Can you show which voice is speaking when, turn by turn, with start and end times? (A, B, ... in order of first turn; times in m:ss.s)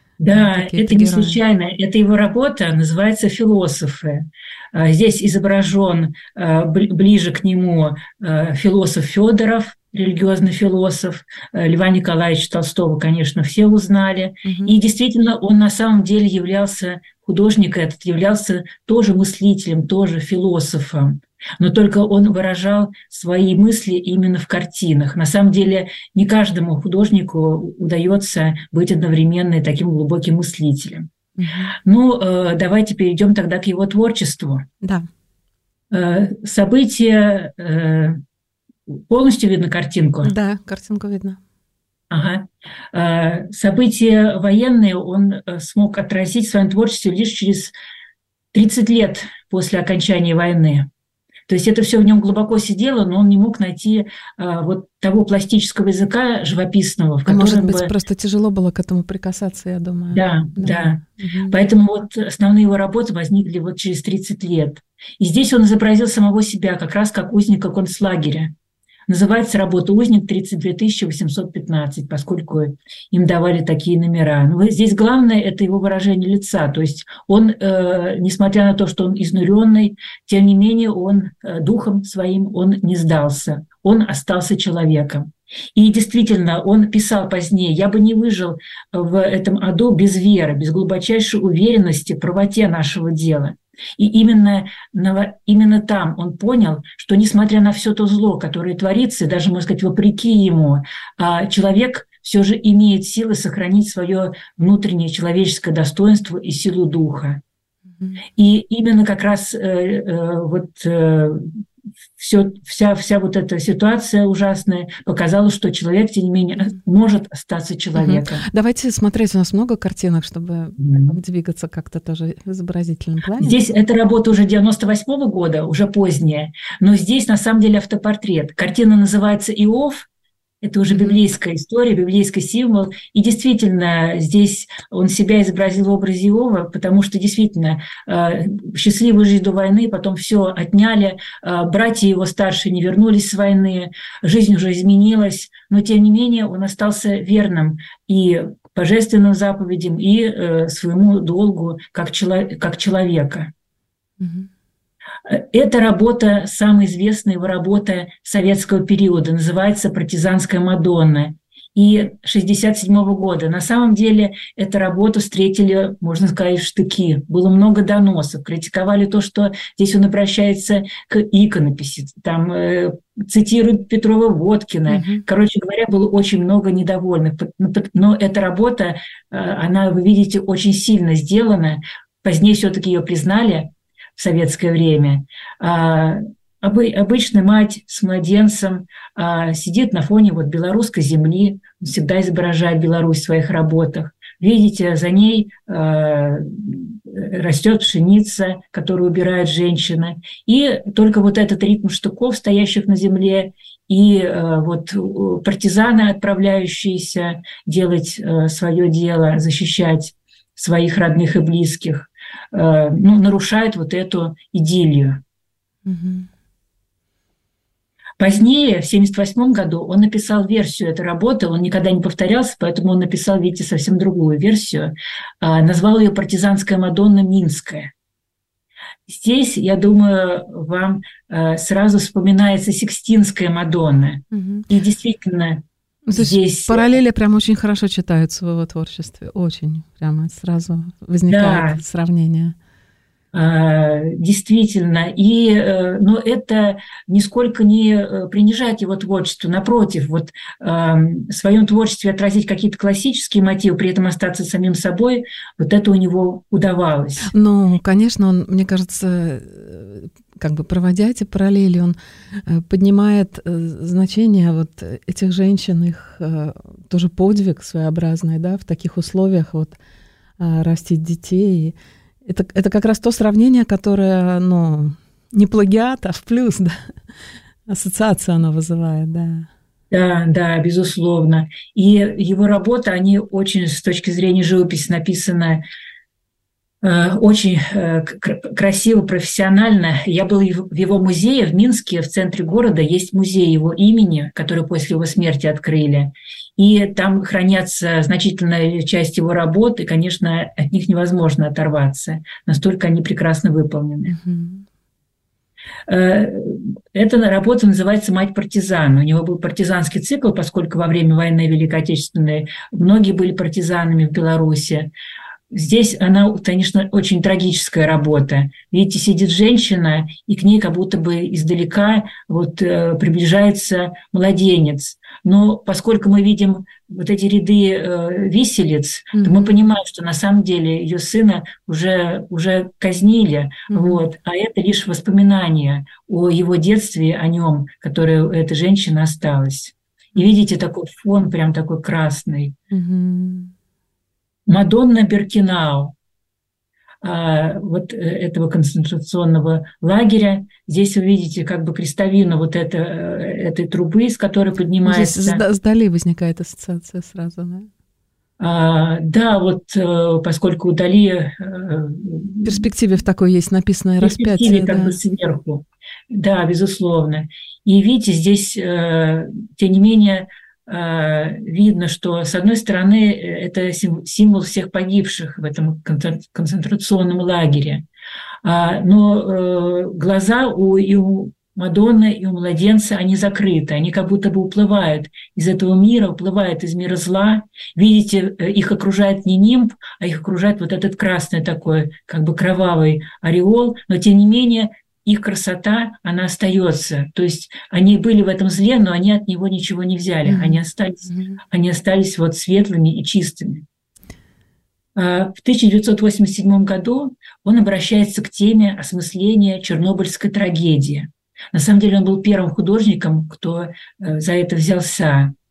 0:00.2-0:31.1 A
0:00.3-0:01.4 B
0:14.4-0:14.7 B
0:31.4-0:31.7 B
0:31.8-0:34.6 A
0:34.8-0:35.1 B
0:35.9-0:38.2 A
0:38.9-0:40.3 A
0:40.2-0:41.4 B
0:42.1-0:47.7 A
0:48.5-0:50.9 A
0:51.5-0:57.9 A
0:57.2-1:01.6 B
1:00.1-1:08.5 A
1:09.1-1:47.4 A
1:48.0-1:48.2 B
1:48.4-1:51.6 A
1:52.2-1:58.5 A
1:57.9-2:03.6 B
2:00.8-2:01.2 A
2:03.4-2:10.0 A
2:10.6-2:33.5 A
2:10.9-2:11.2 B
2:34.2-2:34.5 B
2:35.2-3:35.2 A
2:54.9-2:55.2 B
3:35.8-3:36.3 B
3:38.2-3:47.9 A
3:49.1-3:55.6 A
3:54.3-3:54.6 B
3:56.0-4:02.6 B
3:56.1-3:56.9 A
4:01.3-4:01.8 A
4:03.3-4:17.3 A
4:17.2-4:29.8 B
4:30.4-4:36.9 B
4:37.7-4:39.5 B
4:39.9-4:45.6 A
4:46.8-5:04.2 A
5:04.1-5:04.6 B
5:05.9-5:14.9 A
5:15.5-5:42.5 A
5:29.1-5:29.5 B
5:33.7-5:34.0 B
5:42.7-5:43.5 B
5:44.5-5:45.9 A
5:47.0-5:55.4 A
5:54.8-5:57.7 B
5:58.4-6:02.6 A
6:02.4-6:05.0 B
6:04.0-6:17.8 A
6:18.4-6:43.6 A
6:40.2-6:41.4 B
6:45.0-6:55.3 A